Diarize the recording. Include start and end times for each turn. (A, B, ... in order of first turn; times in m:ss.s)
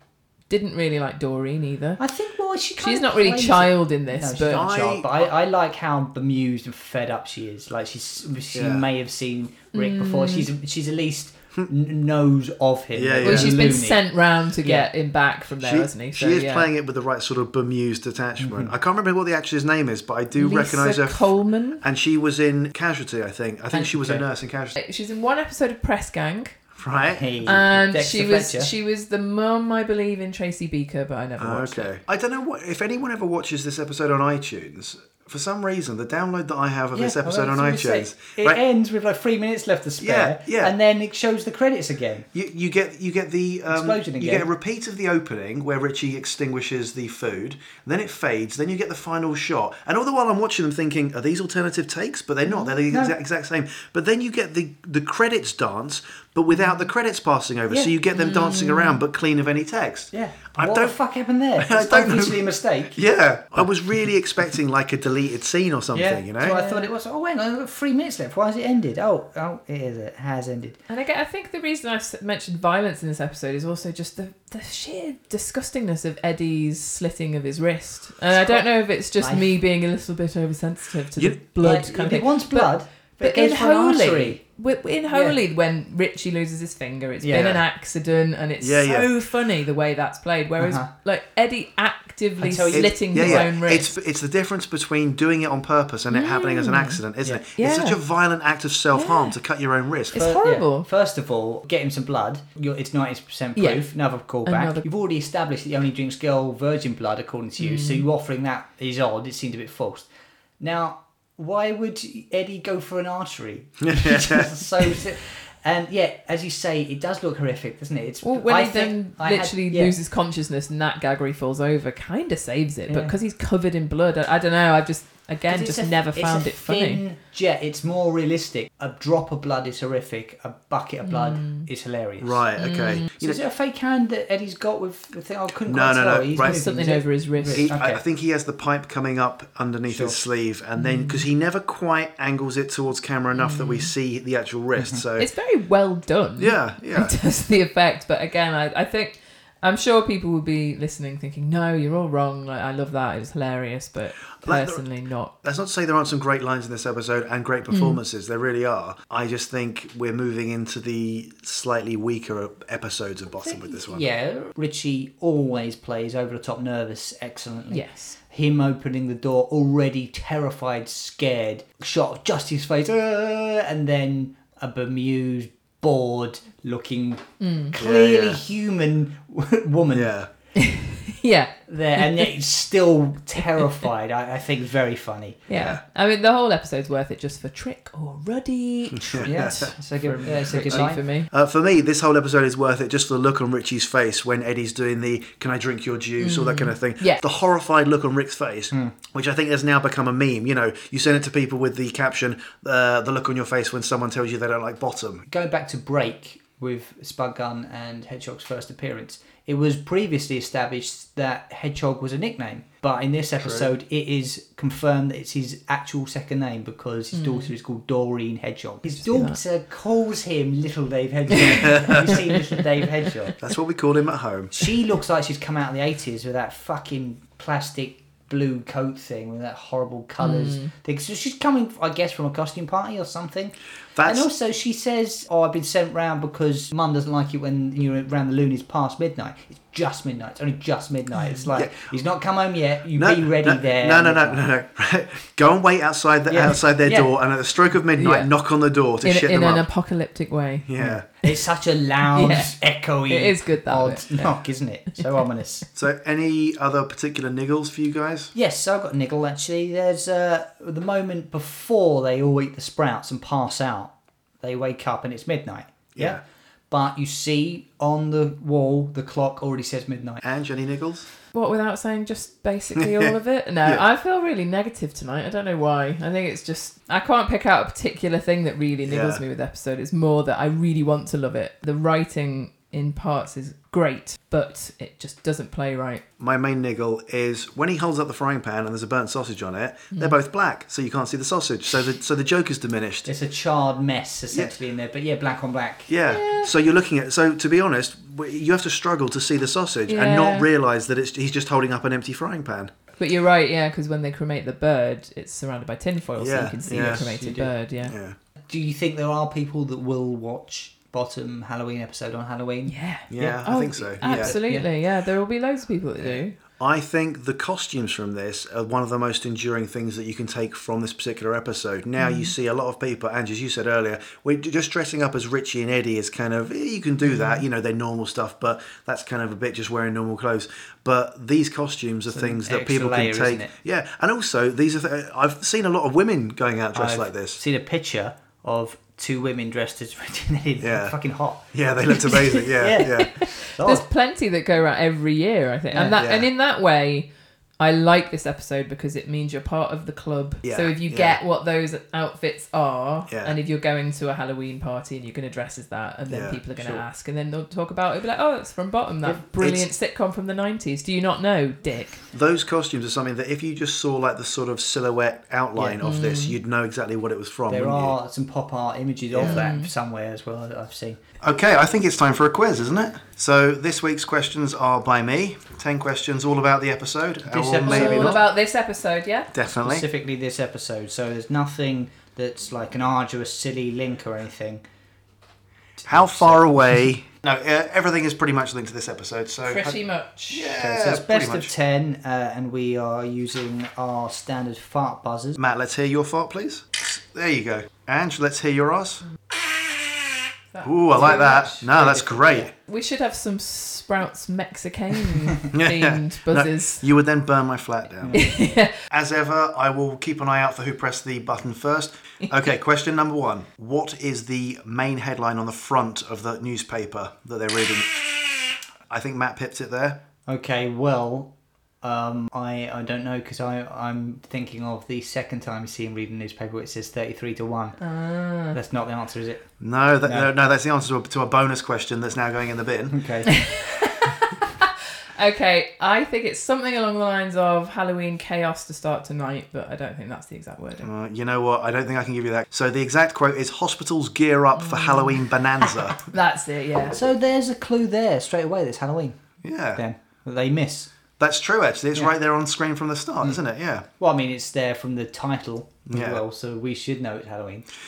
0:00.5-0:02.0 A
0:02.0-0:14.0 B
0:02.8-0:04.6 A
0:04.5-0:05.3 C
0:08.5-0:08.9 C
0:09.7-0:10.5 A
0:13.0-0:13.7 C
0:13.2-0:16.7 A
0:14.6-0:14.9 B
0:15.6-0:24.8 C
0:18.4-0:18.7 B
0:20.3-0:21.8 A
0:23.7-0:24.2 B
0:24.8-0:26.6 A
0:26.8-0:27.3 C
0:27.1-0:28.7 B
0:27.4-0:31.9 A
0:31.4-0:38.6 C
0:36.9-0:42.3 B
0:40.0-0:40.7 C
0:42.3-1:01.0 C
0:43.7-0:44.4 B
0:52.9-0:53.2 B
0:58.1-0:59.0 A
1:00.1-1:03.0 B
1:01.6-1:06.6 C
1:05.9-1:10.8 B
1:06.5-1:06.9 A
1:10.9-1:33.9 A
1:18.3-1:18.6 B
1:19.2-1:19.5 B
1:21.6-1:24.4 B
1:25.1-1:25.4 B
1:27.2-1:27.6 B
1:27.3-1:27.6 C
1:28.6-1:29.1 C
1:30.6-1:30.9 B
1:32.4-1:33.5 B
1:32.7-1:40.2 C
1:36.1-1:37.0 A
1:37.6-1:38.0 A
1:38.9-1:39.3 A
1:40.1-1:40.9 A
1:40.1-1:50.1 B
1:43.6-1:44.9 A
1:47.6-1:48.0 A
1:50.6-2:00.0 B
1:53.8-1:54.5 C
1:58.2-2:07.0 A
2:02.9-2:03.1 B
2:05.5-2:12.4 B
2:11.1-2:11.7 A
2:12.2-2:13.4 C
2:12.6-2:13.1 A
2:13.2-2:18.0 B
2:15.7-2:16.6 C
2:16.4-2:17.7 A
2:17.5-2:25.3 C
2:19.9-2:20.2 B
2:20.8-2:21.2 A
2:23.3-2:23.9 A
2:24.8-2:25.0 B
2:25.2-2:35.3 A
2:26.4-2:27.1 C
2:34.4-2:34.8 C
2:35.4-2:44.0 C
2:37.7-2:38.0 A
2:43.3-3:00.1 B
2:47.7-2:48.2 A
2:57.4-2:57.7 A
2:57.8-2:58.4 C
2:59.9-3:00.3 C
3:00.6-3:02.3 A
3:01.7-3:05.4 B
3:05.5-3:11.3 A
3:05.5-3:05.8 C
3:09.0-3:09.7 C
3:09.2-3:11.0 B
3:10.7-3:25.3 C
3:16.2-3:17.2 A
3:25.3-3:43.4 B
3:33.4-3:33.7 C
3:37.1-3:37.5 A
3:38.9-3:39.4 A
3:43.4-3:44.7 C
3:44.5-4:04.4 B
3:50.2-3:50.7 A
3:54.0-3:54.3 C
4:03.0-4:09.7 C
4:06.3-4:07.1 B
4:08.0-4:08.3 A
4:09.0-4:10.7 A
4:10.7-4:11.0 C
4:10.8-4:15.6 B
4:12.1-4:12.6 A
4:13.1-4:14.3 A
4:15.8-4:18.3 C
4:18.3-4:30.2 B
4:26.0-4:26.2 C
4:30.2-4:31.1 C
4:31.3-4:46.0 A
4:32.8-4:33.8 C
4:38.8-4:39.2 C
4:46.2-4:53.1 C
4:53.0-4:55.9 B
4:55.9-5:02.7 C
4:56.1-4:56.5 A
4:59.9-5:00.5 A
5:03.0-5:08.0 A
5:06.2-5:07.2 C
5:06.8-5:07.5 B
5:07.8-5:08.2 C
5:08.5-5:13.3 B
5:12.7-5:16.4 A
5:13.1-5:14.3 C
5:14.0-5:14.7 B
5:16.0-5:37.4 C
5:22.0-5:22.3 A
5:27.1-5:27.4 A
5:32.1-5:33.5 B
5:36.7-5:41.5 B
5:40.6-5:43.1 C
5:41.9-5:47.1 A
5:42.6-5:43.9 B
5:45.7-5:46.0 B
5:46.0-5:46.3 C
5:47.6-6:02.0 A
5:50.4-5:51.2 C
5:53.1-5:53.4 C
5:56.1-5:56.4 C
5:56.6-5:56.8 B
5:59.0-5:59.7 C
6:02.1-6:08.0 C
6:05.6-6:05.8 B
6:05.8-6:06.4 A
6:07.5-6:11.0 B
6:09.1-6:09.4 C
6:09.2-6:09.7 A
6:11.2-6:18.3 C
6:17.2-6:18.2 B
6:17.6-6:19.3 A
6:19.3-6:19.9 C
6:19.6-6:24.6 B
6:25.8-6:26.5 B
6:25.9-6:29.8 C
6:29.4-6:30.5 A
6:30.3-6:31.5 C
6:30.6-6:35.4 B
6:35.4-6:39.0 C
6:40.5-6:41.7 A
6:40.6-6:42.5 C
6:41.0-6:42.5 B
6:42.6-6:46.8 A
6:45.5-6:48.2 C
6:48.0-6:48.3 B
6:48.1-6:48.7 A
6:48.9-7:00.0 C
7:00.3-7:07.8 B
7:07.8-7:08.6 A
7:08.5-7:09.5 B
7:09.6-7:13.3 C
7:10.0-7:10.3 B
7:12.9-7:13.3 B
7:13.3-7:20.9 A
7:20.8-7:26.0 C
7:24.5-7:25.3 A
7:26.0-7:27.0 A
7:26.9-7:29.2 B
7:29.4-7:29.8 C
7:29.7-7:30.9 B
7:31.2-7:33.9 C
7:34.0-7:37.7 B
7:35.9-7:36.2 C